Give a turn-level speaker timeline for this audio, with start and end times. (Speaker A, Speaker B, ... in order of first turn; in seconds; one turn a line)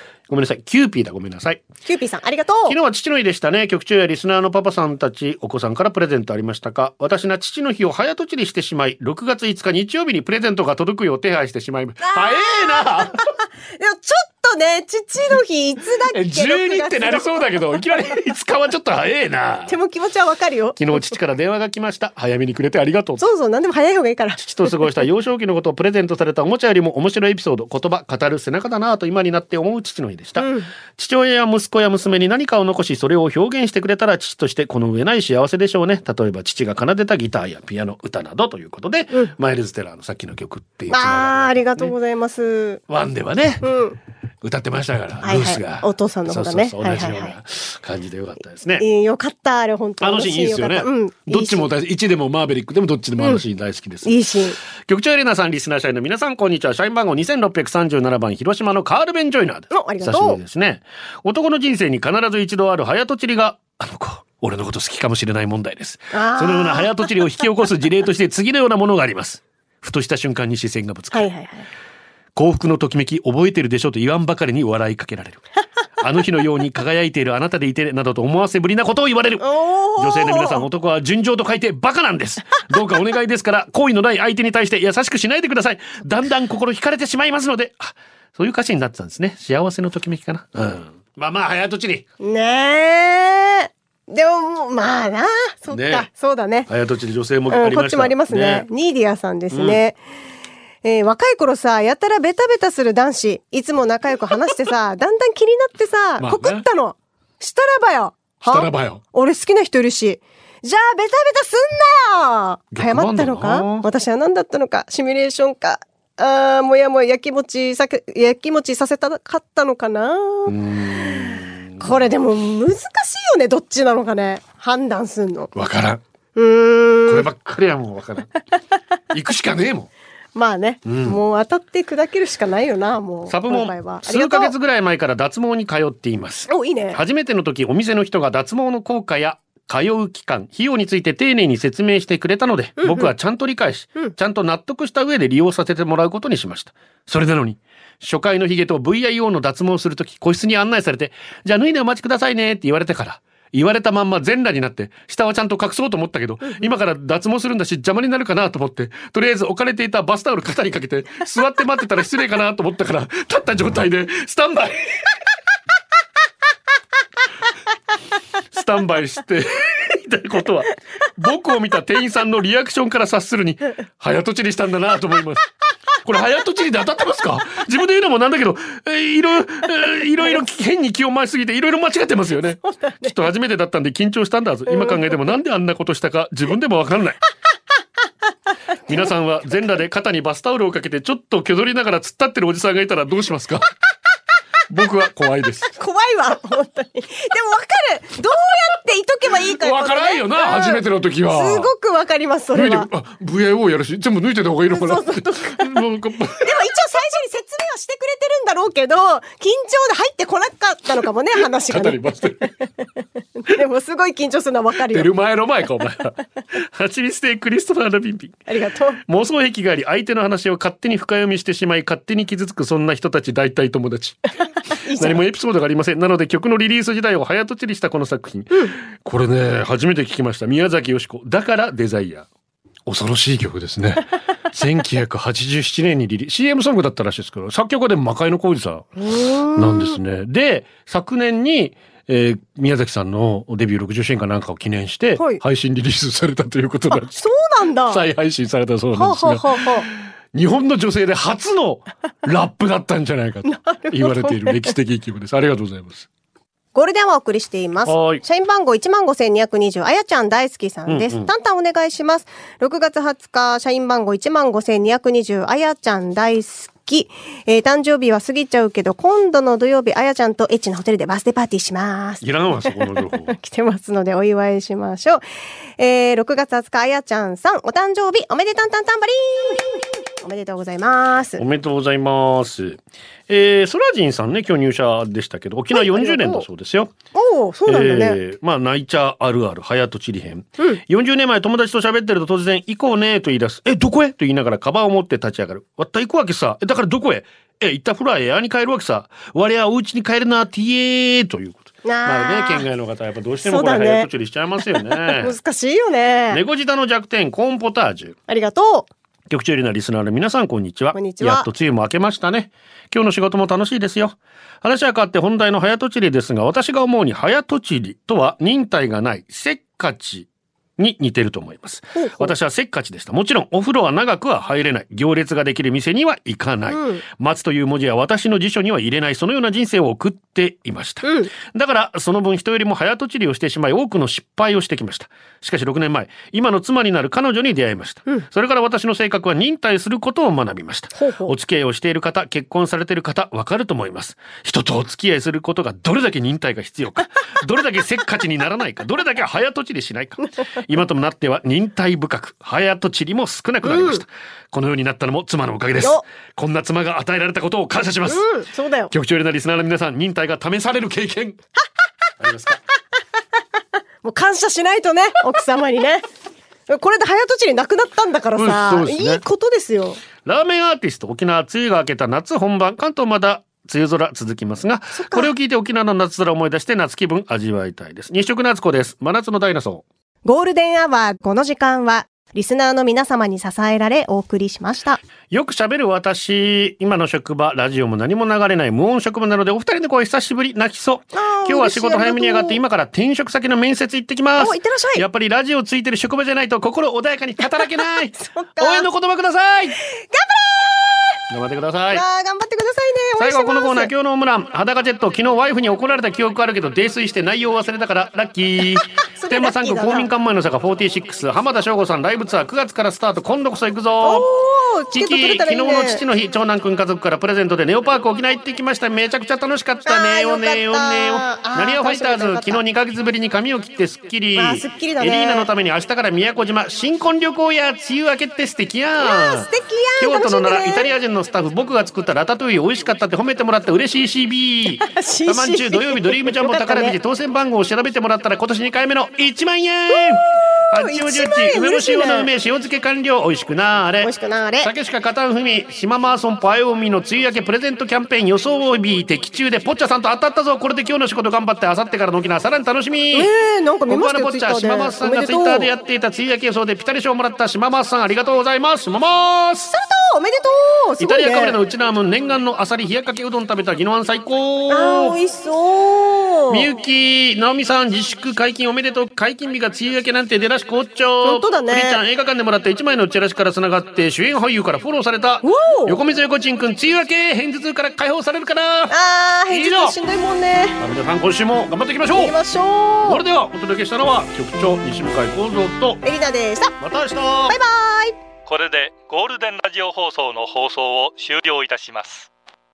Speaker A: 0.3-1.6
Speaker B: 1.9-2.8
Speaker A: 2.7-13.2
Speaker B: 12.0-17.6
Speaker A: 16.1-19.8
Speaker B: 19.7-21.1
Speaker A: 20.8-23.3
Speaker B: 23.2-25.0
Speaker A: 24.4-41.9
Speaker B: 30.4-30.7
Speaker B: 40.9-42.8
Speaker A: 42.9-43.7
Speaker B: 43.6-44.0
Speaker A: 44.4-48.8
Speaker B: 45.2-47.3
Speaker B: 48.8-51.7
Speaker A: 50.0-54.2
Speaker B: 54.0-54.6
Speaker A: 54.8-71.3
Speaker B: 59.7-60.4
Speaker B: 66.1-67.1
Speaker B: 71.1-71.7
Speaker A: 72.3-75.4
Speaker A: 76.0-92.0
Speaker B: 79.4-80.7
Speaker B: 92.2-96.7
Speaker A: 95.7-96.1
Speaker A: 96.7-98.7
Speaker B: 97.5-100.0
Speaker A: 99.5-99.8
Speaker B: 100.8-125.5
Speaker A: 106.2-106.7
Speaker A: 108.4-109.0
Speaker A: 112.7-113.9
Speaker A: 120.5-122.1
Speaker A: 125.5-126.0
Speaker B: 126.4-127.3
Speaker A: 127.1-128.3
Speaker A: 129.1-129.9
Speaker B: 130.3-134.5
Speaker A: 130.8-131.2
Speaker A: 133.3-165.1
Speaker B: 136.5-137.0
Speaker B: 142.8-143.1
Speaker A: 168.5-175.5
Speaker A: 176.0-187.2
Speaker B: 182.7-183.1
Speaker B: 184.7-185.0
Speaker A: 188.9-193.7
Speaker A: 194.7-195.7
Speaker B: 195.8-202.9
Speaker A: 199.4-201.7
Speaker A: 202.5-206.7
Speaker B: 204.7-205.7
Speaker B: 206.4-212.0
Speaker A: 211.4-212.6
Speaker B: 213.4-215.1
Speaker A: 214.9-218.4
Speaker B: 218.5-219.0
Speaker A: 219.1-224.2
Speaker B: 224.8-225.2
Speaker A: 224.9-232.3
Speaker A: 232.9-239.0
Speaker B: 239.0-240.0
Speaker A: 239.5-247.2
Speaker B: 245.2-245.4
Speaker B: 246.9-248.0
Speaker A: 247.9-256.1
Speaker B: 248.9-249.9
Speaker B: 253.4-254.7
Speaker B: 256.7-272.7
Speaker A: 257.9-258.2
Speaker A: 260.9-261.3
Speaker A: 272.2-273.4
Speaker B: 273.3-275.2
Speaker B: 275.8-281.4
Speaker A: 281.4-286.9
Speaker B: 285.7-286.5
Speaker B: 287.1-288.2
Speaker A: 287.7-305.4
Speaker B: 301.8-302.7
Speaker B: 303.4-304.1
Speaker B: 305.1-306.4
Speaker A: 306.3-308.2
Speaker B: 308.3-308.9
Speaker A: 309.3-358.2
Speaker B: 310.9-311.5
Speaker B: 321.9-322.3
Speaker B: 326.7-327.0
Speaker B: 331.0-331.3
Speaker B: 340.9-341.3
Speaker B: 353.6-354.0
Speaker B: 358.1-358.9
Speaker A: 358.9-361.4
Speaker A: 362.2-362.6
Speaker B: 364.0-366.0
Speaker B: 366.7-370.0
Speaker A: 368.4-369.2
Speaker A: 370.2-379.8
Speaker B: 374.9-375.3
Speaker B: 380.3-385.0
Speaker A: 385.3-399.8
Speaker B: 391.1-392.6
Speaker B: 394.4-395.1
Speaker B: 397.8-398.9
Speaker B: 400.0-401.2
Speaker A: 401.3-402.0
Speaker B: 401.9-403.9
Speaker A: 403.2-414.3
Speaker B: 409.2-410.1
Speaker B: 414.0-416.0
Speaker A: 414.9-453.3
Speaker B: 419.9-422.6
Speaker B: 424.4-425.5
Speaker B: 429.0-430.9
Speaker B: 434.8-437.0
Speaker B: 440.7-442.3
Speaker B: 444.0-444.7
Speaker B: 453.1-455.7
Speaker A: 453.9-459.7
Speaker B: 459.7-461.6
Speaker A: 461.0-465.2
Speaker B: 464.7-466.7
Speaker A: 466.5-480.0
Speaker B: 471.2-472.0
Speaker B: 475.4-476.0
Speaker B: 478.9-480.8
Speaker A: 480.8-482.4
Speaker B: 482.1-483.2
Speaker A: 483.0-486.0
Speaker B: 486.0-486.8
Speaker A: 486.8-487.6
Speaker B: 487.5-488.2
Speaker C: 488.5-492.3